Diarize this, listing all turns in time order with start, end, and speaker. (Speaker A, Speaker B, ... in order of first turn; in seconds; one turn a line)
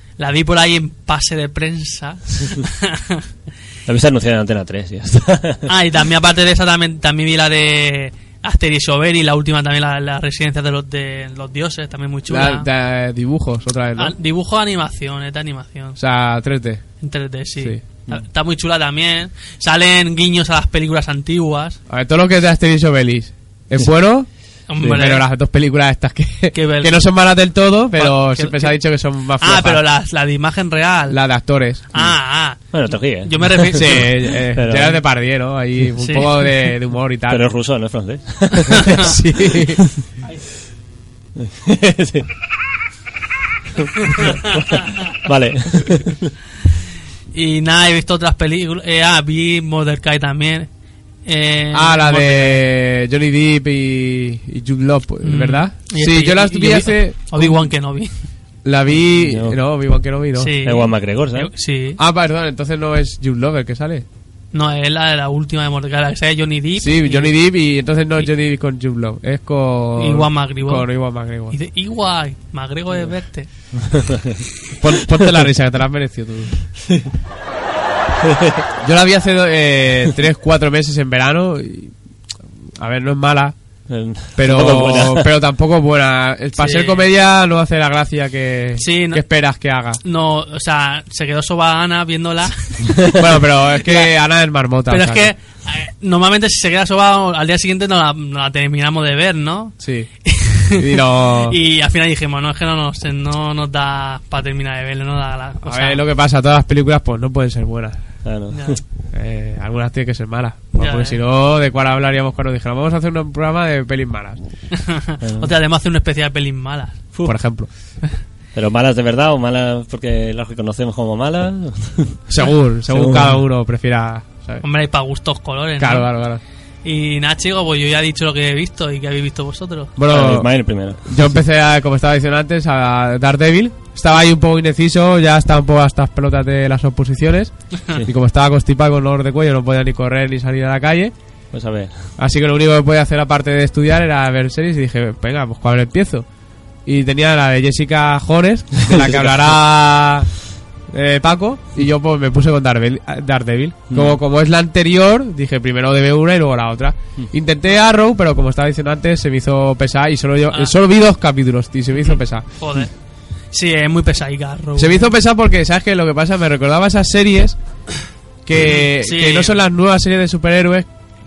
Speaker A: 0.2-3.2
Speaker B: 3.9-5.7
Speaker A: 5.7-12.7
Speaker C: 12.3-14.2
Speaker A: 14.0-16.0
Speaker C: 16.0-16.9
Speaker A: 17.0-21.8
Speaker C: 21.9-24.3
Speaker A: 24.7-25.2
Speaker C: 24.8-29.8
Speaker A: 26.5-27.0
Speaker A: 28.0-28.8
Speaker A: 29.4-31.2
Speaker C: 31.1-31.9
Speaker A: 31.9-34.2
Speaker B: 32.7-35.0
Speaker C: 33.7-37.5
Speaker A: 36.0-36.3
Speaker B: 37.3-39.1
Speaker A: 38.7-39.1
Speaker C: 38.9-39.9
Speaker B: 41.4-42.3
Speaker B: 43.8-46.3
Speaker A: 44.0-44.9
Speaker A: 47.3-50.7
Speaker A: 51.2-52.6
Speaker C: 51.7-57.7
Speaker A: 55.2-58.1
Speaker C: 58.6-60.6
Speaker B: 59.1-59.6
Speaker A: 60.4-62.0
Speaker B: 60.6-61.5
Speaker C: 62.0-64.1
Speaker A: 64.5-67.3
Speaker C: 66.8-71.6
Speaker A: 70.0-70.9
Speaker A: 71.5-73.5
Speaker B: 73.8-74.4
Speaker C: 74.8-76.6
Speaker B: 78.2-78.7
Speaker C: 78.8-81.9
Speaker C: 82.8-83.6
Speaker B: 83.9-85.3
Speaker C: 84.4-90.0
Speaker A: 86.6-87.0
Speaker A: 88.8-89.2
Speaker A: 90.0-93.0
Speaker B: 92.9-93.3
Speaker C: 93.1-95.3
Speaker A: 94.9-106.0
Speaker C: 99.8-100.1
Speaker C: 100.7-101.6
Speaker C: 105.6-108.0
Speaker B: 108.2-108.8
Speaker A: 108.5-108.8
Speaker C: 109.1-114.4
Speaker A: 110.8-111.2
Speaker A: 114.7-117.0
Speaker B: 115.2-115.5
Speaker C: 117.2-117.7
Speaker B: 118.5-122.2
Speaker C: 122.3-124.6
Speaker B: 122.9-123.4
Speaker A: 124.6-126.1
Speaker C: 125.8-126.4
Speaker A: 126.8-129.9
Speaker C: 130.0-130.5
Speaker B: 130.1-131.2
Speaker C: 131.0-141.1
Speaker B: 141.5-142.1
Speaker C: 142.2-146.3
Speaker C: 146.9-150.3
Speaker C: 150.9-162.5
Speaker B: 153.9-154.2
Speaker A: 162.0-162.9
Speaker A: 163.5-165.1
Speaker C: 164.8-167.6
Speaker C: 168.5-170.9
Speaker A: 168.6-169.6